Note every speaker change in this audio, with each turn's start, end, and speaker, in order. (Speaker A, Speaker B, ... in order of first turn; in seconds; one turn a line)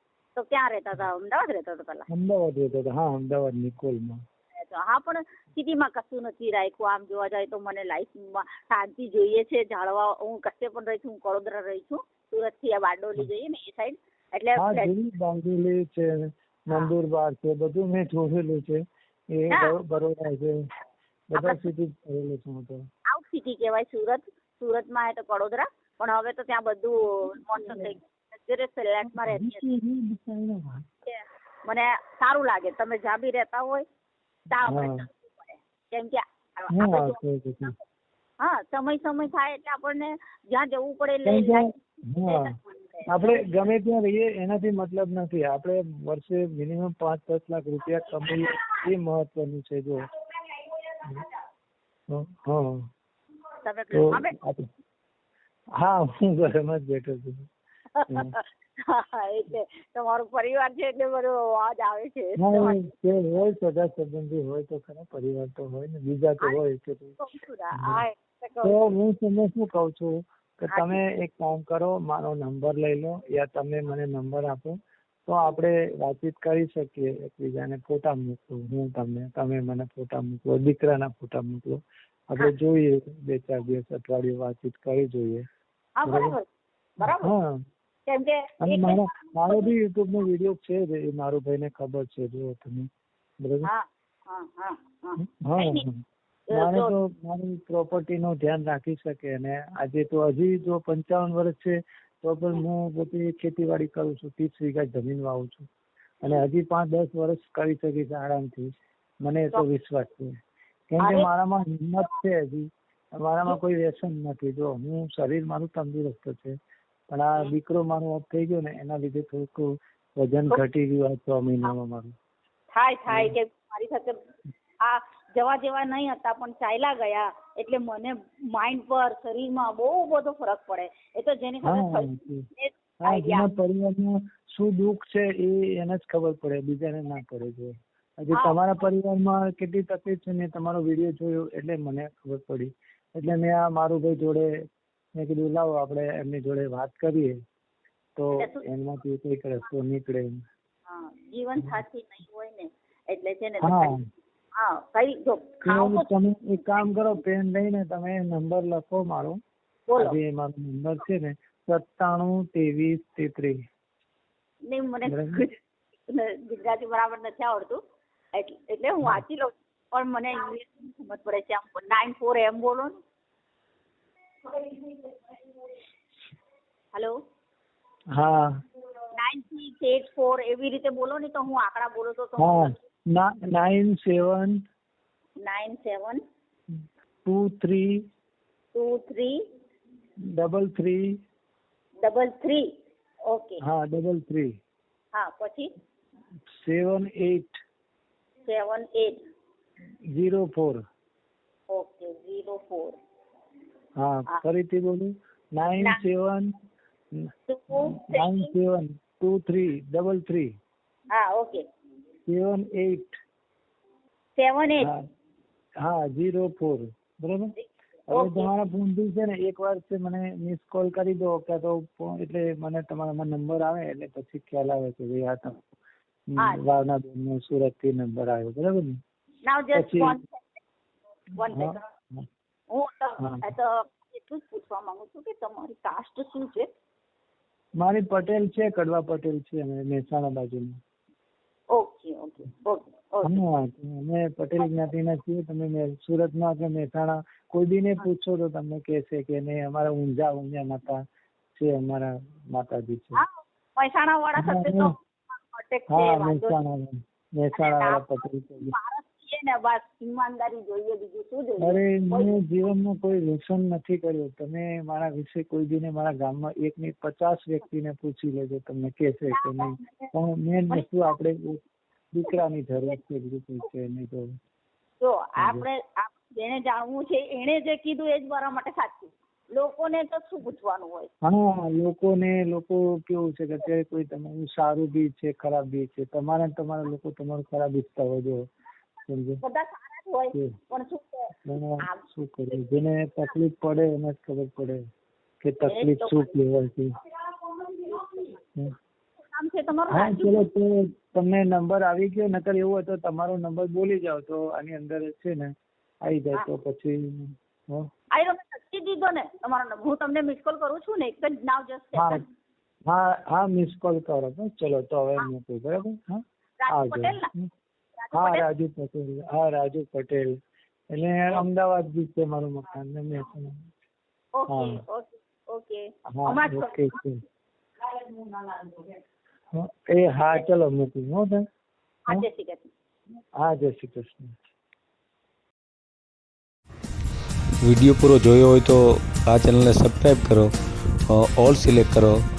Speaker A: 0.3-2.0
Speaker B: 2.1-4.2
Speaker A: 4.6-14.9
Speaker B: 14.6-18.8
Speaker B: 19.3-20.5
Speaker B: 21.3-22.9
Speaker A: 21.3-21.6
Speaker A: 23.1-29.6
Speaker B: 27.5-27.9
Speaker B: 29.1-30.9
Speaker A: 31.1-33.8
Speaker A: 34.5-37.8
Speaker B: 34.6-35.0
Speaker B: 36.7-37.7
Speaker A: 38.4-41.7
Speaker B: 41.2-42.5
Speaker A: 42.2-43.7
Speaker B: 43.1-50.0
Speaker B: 52.1-52.9
Speaker A: 53.6-54.4
Speaker B: 53.9-54.6
Speaker B: 55.8-57.5
Speaker A: 57.9-62.9
Speaker B: 62.4-67.2
Speaker A: 67.2-68.9
Speaker B: 67.8-68.0
Speaker B: 68.6-74.7
Speaker A: 70.7-71.0
Speaker B: 75.3-85.4
Speaker A: 86.0-86.4
Speaker B: 86.0-86.4
Speaker A: 87.0-87.3
Speaker B: 87.0-87.6
Speaker A: 88.1-89.7
Speaker B: 88.6-92.9
Speaker B: 93.4-93.7
Speaker A: 93.6-95.8
Speaker B: 95.4-105.7
Speaker A: 96.5-96.9
Speaker B: 106.2-108.7
Speaker B: 109.2-110.3
Speaker B: 110.9-116.5
Speaker B: 117.1-122.1
Speaker A: 122.7-124.2
Speaker B: 123.1-123.3
Speaker A: 124.8-133.5
Speaker B: 131.6-132.4
Speaker B: 133.0-144.5
Speaker A: 138.3-138.6
Speaker B: 145.2-147.3
Speaker B: 148.2-150.4
Speaker A: 148.4-148.6
Speaker A: 150.9-153.9
Speaker B: 153.6-154.0
Speaker A: 154.6-156.8
Speaker B: 155.6-159.4
Speaker A: 159.9-160.2
Speaker B: 160.0-163.6
Speaker A: 164.7-165.6
Speaker B: 165.1-165.5
Speaker A: 166.1-167.8
Speaker A: 168.3-172.9
Speaker B: 178.1-178.5
Speaker A: 179.2-182.7
Speaker B: 182.4-184.6
Speaker A: 185.4-186.2
Speaker B: 187.2-188.0
Speaker A: 188.7-189.4
Speaker B: 190.4-191.1
Speaker A: 192.0-192.7
Speaker A: 193.3-193.6
Speaker B: 193.6-194.5
Speaker A: 195.1-195.7
Speaker B: 196.5-197.6
Speaker A: 198.4-199.2
Speaker B: 200.1-200.8
Speaker A: 201.7-202.9
Speaker B: 204.0-206.5
Speaker B: 207.2-210.5
Speaker A: 207.5-208.5
Speaker A: 211.1-211.6
Speaker B: 212.3-213.1
Speaker A: 214.4-214.9
Speaker B: 215.8-217.5
Speaker A: 217.6-218.5
Speaker B: 218.1-225.6
Speaker B: 226.3-229.0
Speaker A: 229.5-230.6
Speaker B: 229.7-230.2
Speaker A: 231.4-231.8
Speaker B: 231.5-232.2
Speaker A: 232.7-236.7
Speaker B: 233.2-233.4
Speaker B: 237.8-240.8
Speaker A: 241.7-243.4
Speaker B: 243.2-251.0
Speaker B: 251.6-253.2
Speaker A: 253.2-256.6
Speaker B: 254.3-254.9
Speaker B: 255.9-258.7
Speaker A: 257.5-262.4
Speaker B: 261.6-271.6
Speaker A: 269.3-270.1
Speaker A: 270.7-271.1
Speaker B: 272.1-274.3
Speaker A: 275.0-281.1
Speaker B: 275.4-275.7
Speaker B: 281.2-288.4
Speaker B: 289.1-289.4
Speaker A: 289.4-291.3
Speaker B: 291.4-294.8
Speaker A: 291.8-292.6
Speaker B: 295.4-296.9
Speaker A: 295.6-296.4
Speaker A: 297.5-298.4
Speaker A: 299.3-300.5
Speaker B: 299.9-305.5
Speaker B: 306.0-307.9
Speaker A: 308.1-312.2
Speaker B: 311.9-312.2
Speaker B: 312.9-317.5
Speaker A: 316.6-317.3
Speaker A: 318.0-318.4
Speaker B: 318.1-320.3
Speaker B: 320.9-323.6
Speaker A: 324.4-327.0
Speaker B: 324.5-324.8
Speaker B: 326.1-327.2
Speaker A: 328.2-328.8
Speaker B: 329.5-331.4
Speaker A: 332.1-332.7
Speaker B: 333.4-334.3
Speaker C: 337.6-340.5
Speaker C: 341.1-342.2